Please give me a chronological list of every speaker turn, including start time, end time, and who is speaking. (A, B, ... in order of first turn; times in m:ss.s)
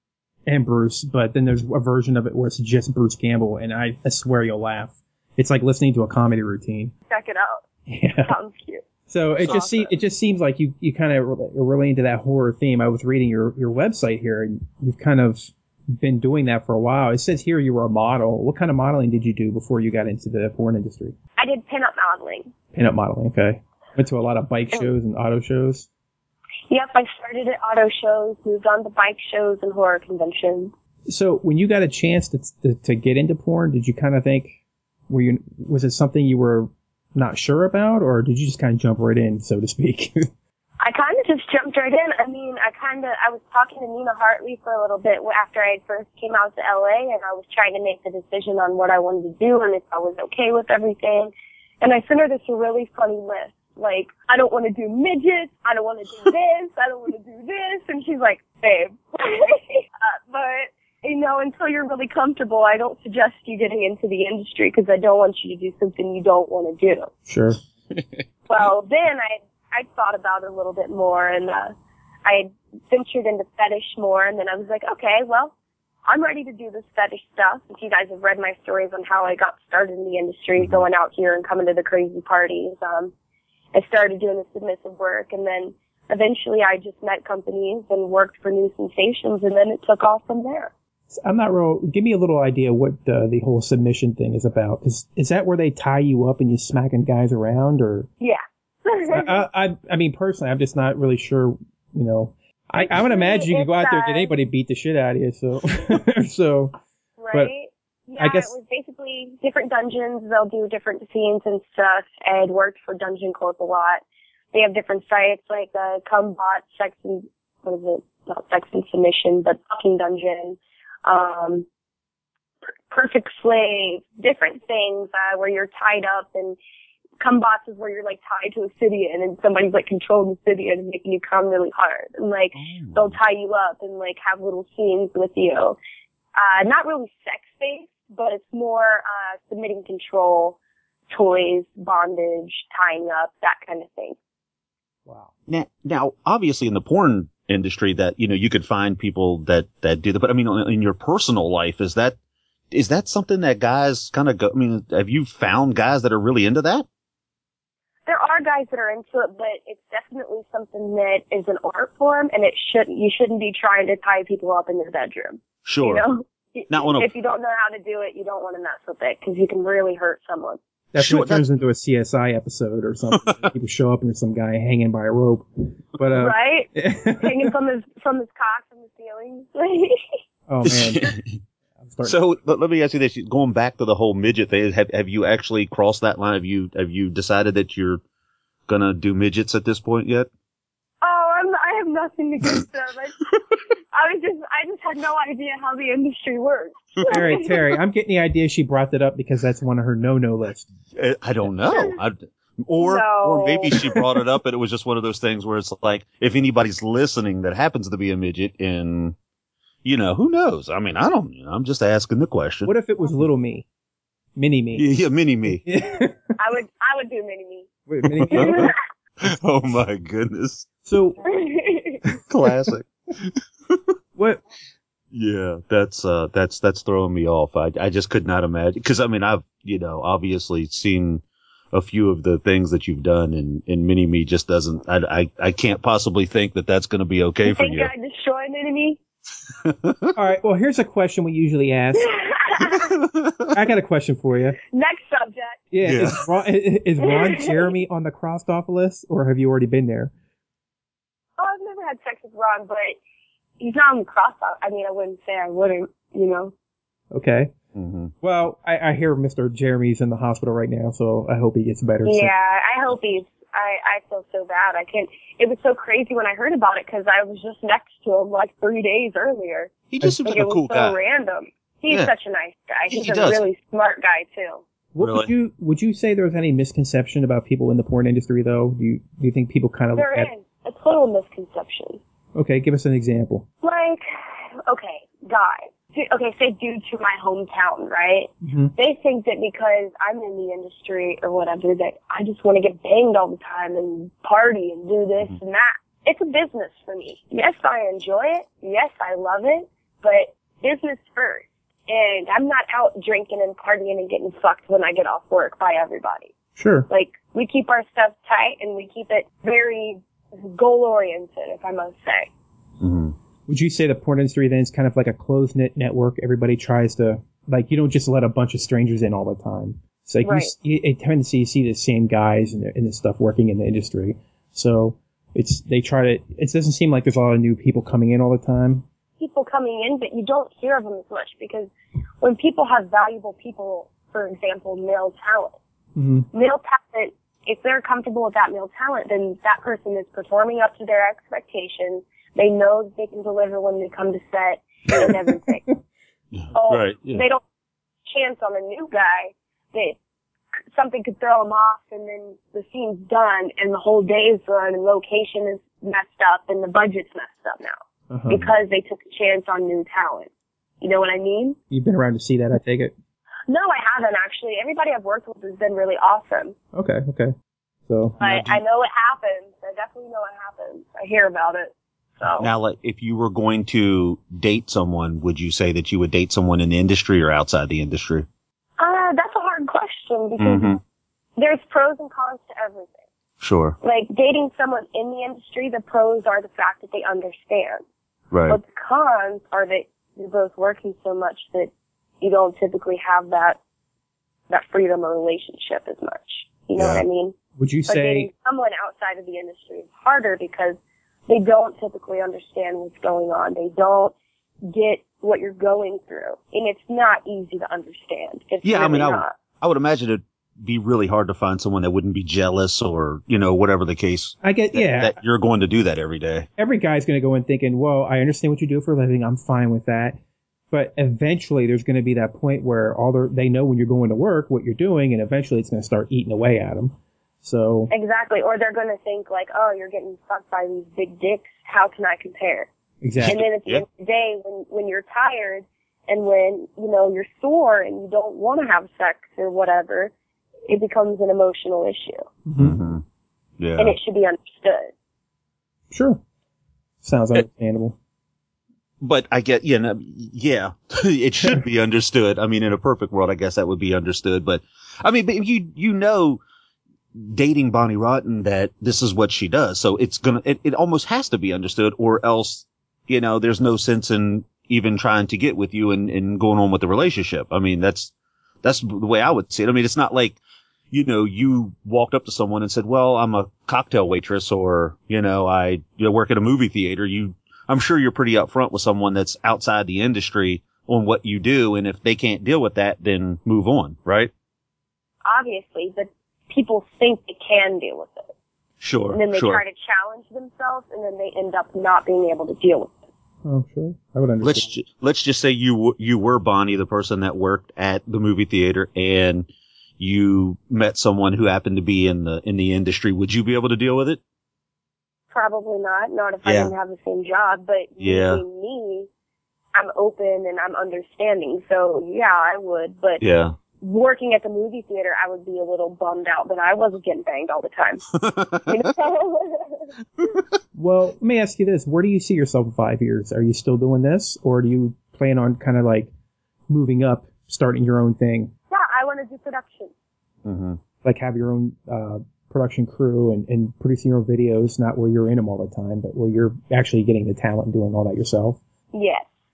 0:00.5-0:06.9 A
0:07.1-0:07.6 B
0:07.9-0:08.3 A
0:08.2-0:08.8 B
0:09.1-0:21.1 A
0:09.4-0:09.9 B
0:21.4-0:22.5 B
0:22.7-0:25.9 A
0:26.7-0:30.7 B
0:31.1-0:34.6 A
0:35.1-0:40.3 A
0:40.8-1:07.1 B
1:07.3-1:07.6 A
1:08.5-1:15.5 B
1:16.1-1:23.1 B
1:20.6-1:20.8 C
1:23.7-1:30.7 B
1:31.1-1:38.1 A
1:38.2-1:39.4 B
1:39.1-1:46.7 A
1:42.8-1:44.3 B
1:47.2-2:01.6 B
1:48.2-1:48.5 A
2:02.9-2:06.6 B
2:07.2-2:15.8 B
2:12.5-2:13.2 C
2:16.4-2:20.6 B
2:21.1-2:24.2 B
2:25.5-2:32.2 C
2:32.7-2:36.8 C
2:38.0-2:50.6 B
2:45.6-2:46.0 C
2:46.7-2:47.1 C
2:50.9-2:57.5 A
2:51.0-2:51.4 C
2:56.1-3:00.0 B
3:00.5-3:01.1 A
3:00.6-3:01.3 C
3:01.8-3:02.2 A
3:02.0-3:08.0 C
3:08.7-3:10.3 C
3:11.0-3:13.2 B
3:13.9-3:17.6 B
3:17.1-3:20.7 A
3:20.9-3:29.2 C
3:21.7-3:22.0 B
3:22.8-3:24.0 B
3:29.8-3:32.7 C
3:32.6-3:33.6 A
3:34.4-3:34.9 A
3:34.7-3:35.6 C
3:35.5-3:36.2 A
3:36.4-3:37.7 B
3:37.9-3:38.7 A
3:38.0-3:40.7 C
3:38.3-3:38.7 B
3:40.8-3:41.2 A
3:41.2-3:42.0 B
3:42.3-3:43.9 C
3:44.2-3:44.4 A
3:45.1-3:57.9 C
3:57.4-3:59.0 B
3:59.6-4:00.2 C
4:00.1-4:02.1 A
4:02.0-4:03.0 B
4:03.0-4:03.5 C
4:03.5-4:04.6 A
4:04.7-4:05.6 B
4:05.7-4:10.1 A
4:05.8-4:06.2 C
4:07.0-4:07.6 B
4:11.4-4:13.0 B
4:13.6-4:16.5 B
4:17.1-4:17.5 A
4:17.7-4:18.1 C
4:18.2-4:22.3 A
4:22.0-4:34.6 B
4:29.9-4:31.0 C
4:32.9-4:33.4 C
4:34.9-4:40.3 A
4:35.0-4:35.3 C
4:39.9-4:42.0 B
4:42.3-4:43.4 A
4:43.6-5:06.3 B
4:48.4-4:48.7 A
5:06.6-5:06.9 A
5:06.9-5:12.3 B
5:12.8-5:13.1 C
5:13.5-5:28.8 A
5:20.2-5:20.5 B
5:29.2-5:35.6 B
5:36.0-5:36.3 A
5:36.3-5:45.6 B
5:46.3-5:47.2 C
5:46.5-5:47.4 B
5:48.0-5:50.0 B
5:50.7-5:57.8 B
5:58.1-5:58.4 A
5:58.3-6:00.3 B
6:00.8-6:01.6 B
6:01.7-6:02.9 A
6:03.5-6:06.6 B
6:06.7-6:07.3 A
6:07.9-6:08.2 A
6:08.2-6:08.6 C
6:08.2-6:12.5 B
6:12.4-6:18.3 C
6:18.8-6:20.8 B
6:20.4-6:20.8 C
6:21.4-6:23.0 B
6:23.4-6:23.8 C
6:23.8-6:27.8 B
6:28.3-6:28.6 C
6:28.5-6:33.6 B
6:34.5-6:49.3 B
6:36.8-6:37.0 C
6:37.6-6:38.3 A
6:48.6-6:56.5 C
6:54.4-6:55.2 A
6:56.6-7:00.2 A
7:00.7-7:07.9 A
7:07.9-7:12.7 B
7:13.0-7:13.4 A
7:13.2-7:13.8 C
7:13.2-7:20.1 B
7:20.7-7:22.2 B
7:22.4-7:22.8 A
7:22.6-7:23.0 C
7:23.6-7:23.9 C
7:23.8-7:24.9 B
7:25.9-7:26.2 A
7:27.0-7:28.0 A
7:29.0-7:36.4 C
7:37.1-7:48.1 C
7:48.6-7:50.4 C
7:50.9-8:04.3 C
8:05.2-8:08.3 B
8:08.8-8:09.6 C
8:09.1-8:12.9 B
8:13.4-8:14.6 A
8:14.4-8:24.2 C
8:25.3-8:29.1 B
8:26.4-8:26.7 C
8:28.0-8:28.4 C
8:29.7-8:33.2 B
8:33.2-8:33.5 C
8:33.8-8:38.1 B
8:38.1-8:38.9 C
8:38.6-8:39.9 B
8:40.7-8:46.1 A
8:46.7-8:48.5 A
8:48.7-8:49.9 B
8:50.4-8:50.8 C
8:51.0-8:58.6 A
8:58.9-8:59.3 B